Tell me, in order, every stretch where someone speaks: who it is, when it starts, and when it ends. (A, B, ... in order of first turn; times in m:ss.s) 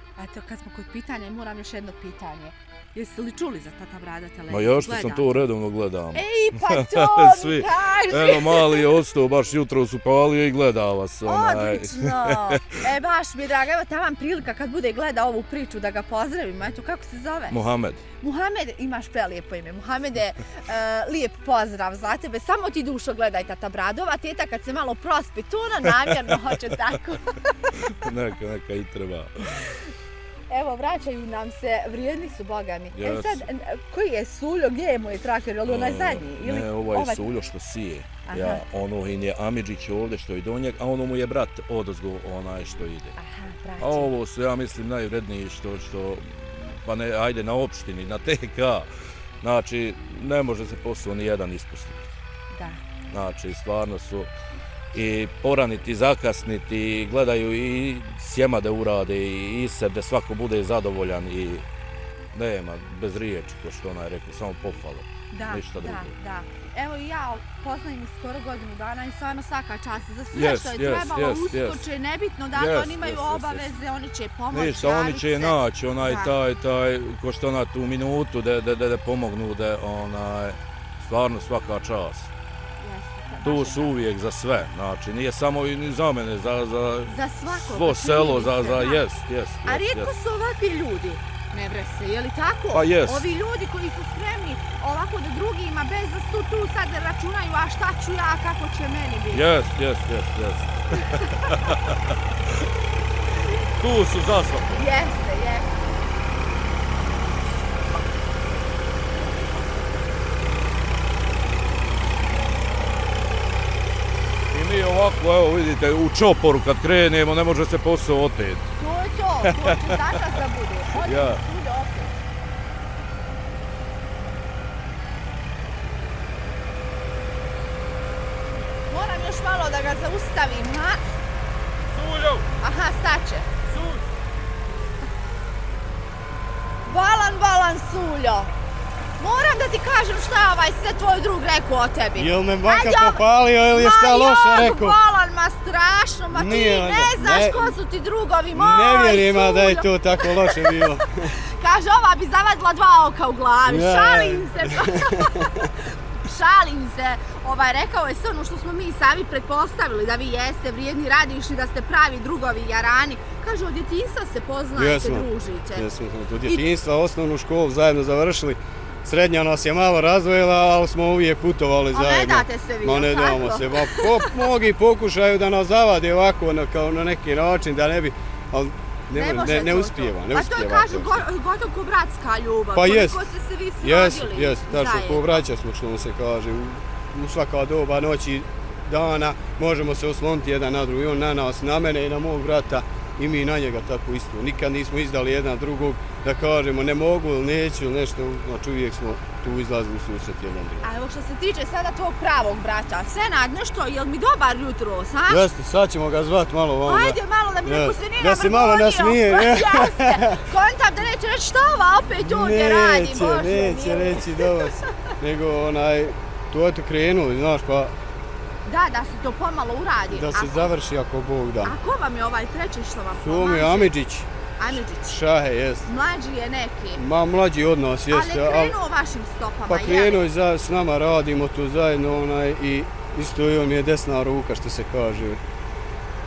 0:00.2-0:05.4 A
0:04.5-0:12.6 B
0:06.1-0:08.9 A
0:11.2-0:17.6 A
0:17.5-0:18.0 B
0:18.2-0:27.8 A
0:27.8-0:29.8 B
0:30.5-0:37.2 A
0:32.9-0:33.4 B
0:35.6-0:43.2 B
0:38.2-0:38.6 A
0:43.2-0:44.1 A
0:43.8-0:48.9 B
0:49.4-0:52.1 B
0:52.5-0:52.8 A
0:53.1-0:54.3 B
0:54.9-1:01.6 B
1:02.3-1:06.1 B
1:05.3-1:16.3 A
1:10.3-1:11.8 B
1:12.5-1:13.7 B
1:14.5-1:22.3 B
1:22.8-1:24.0 A
1:23.4-1:30.1 B
1:27.1-1:29.0 A
1:29.6-1:39.4 A
1:32.7-1:33.3 B
1:39.3-1:42.5 B
1:41.1-1:41.5 A
1:43.8-1:44.8 B
1:44.7-1:45.7 A
1:54.5-1:58.7 B
1:58.8-2:02.1 A
1:59.4-2:00.2 B
2:01.0-2:01.4 B
2:08.9-2:11.2 A
2:11.9-2:12.5 B
2:12.6-2:13.5 A
2:13.7-2:14.0 B
2:16.8-2:18.5 A
2:19.2-2:30.8 A
2:22.2-2:25.0 C
2:26.3-2:27.7 C
2:28.5-2:31.4 C
2:31.6-2:35.5 A
2:33.7-2:35.7 C
2:36.2-2:45.8 A
2:44.8-3:01.2 C
2:51.9-2:54.2 A
2:59.1-3:05.4 A
3:02.7-3:03.2 C
3:03.8-3:20.8 C
3:20.8-3:25.4 A
3:25.3-3:30.4 C
3:26.8-3:34.5 A
3:32.2-3:37.9 C
3:38.6-3:40.7 A
3:40.1-3:41.7 C
3:41.6-3:43.9 A
3:43.2-3:45.9 C
3:44.6-3:45.2 A
3:45.8-3:47.0 A
3:47.0-3:48.7 C
3:48.1-3:50.2 A
3:49.7-3:55.4 C